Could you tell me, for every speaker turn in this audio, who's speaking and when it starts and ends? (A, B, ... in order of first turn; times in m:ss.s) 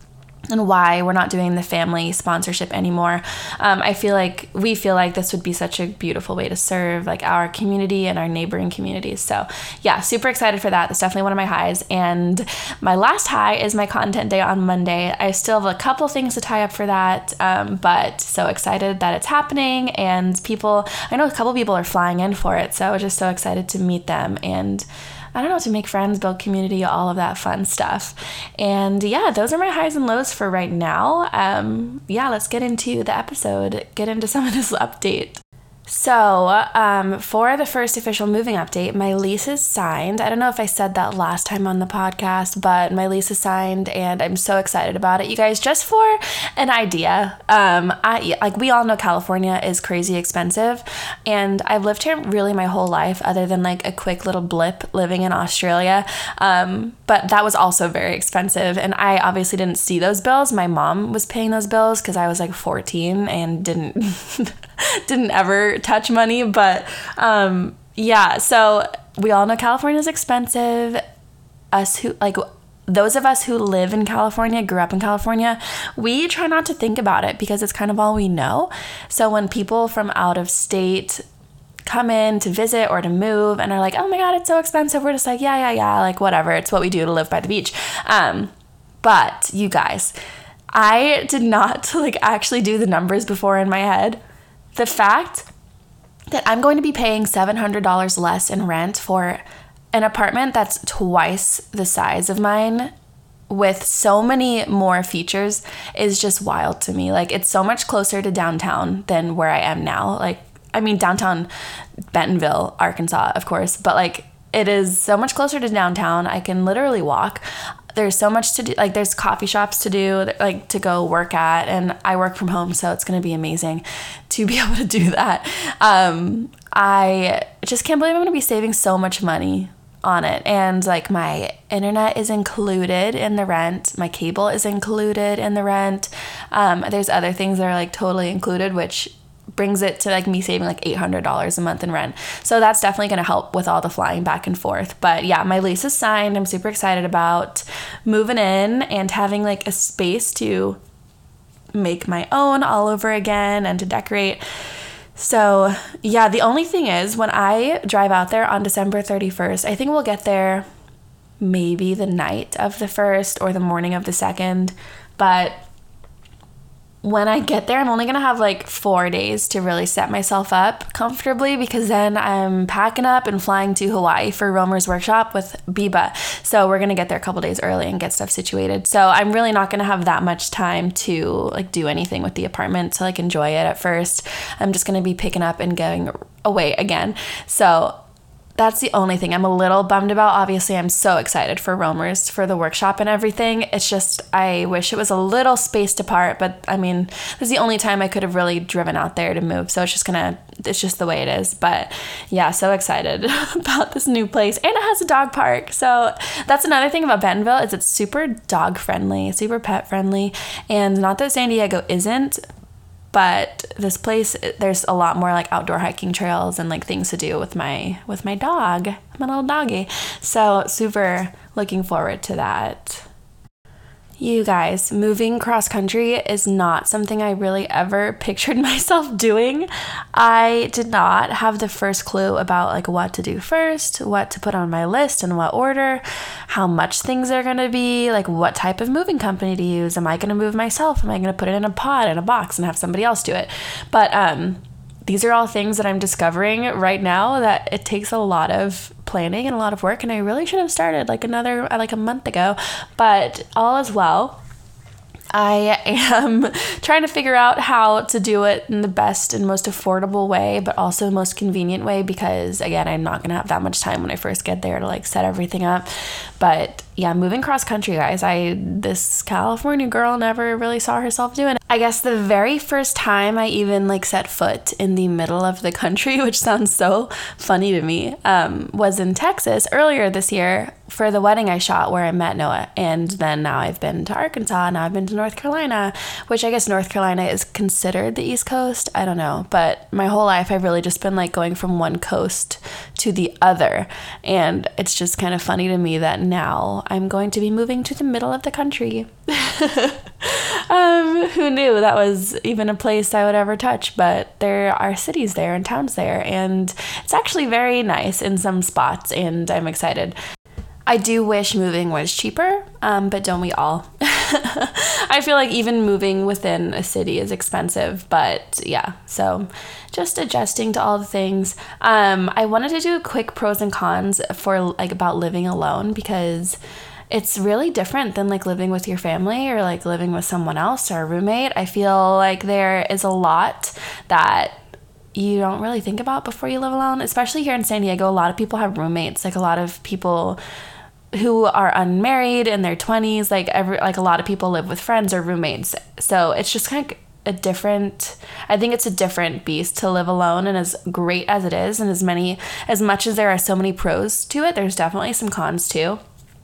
0:00.5-1:11.0 A
1:11.7-1:21.2 A
1:21.8-1:28.5 A
1:29.0-1:30.1 A
1:30.7-1:34.2 A
1:34.8-1:35.5 A
1:36.3-1:42.9 A
1:43.5-1:51.5 A
1:52.1-1:57.4 A
1:57.9-2:30.8 A
2:31.7-2:34.4 A
2:35.2-2:40.6 A
2:41.4-2:45.6 A
2:47.0-3:08.0 A
3:08.6-3:32.4 A
3:33.1-3:43.1 A
3:44.2-4:14.4 A
4:15.3-5:10.2 A
5:10.9-5:26.6 A
5:27.1-5:34.6 A
5:35.1-5:40.4 A
5:41.1-5:56.0 A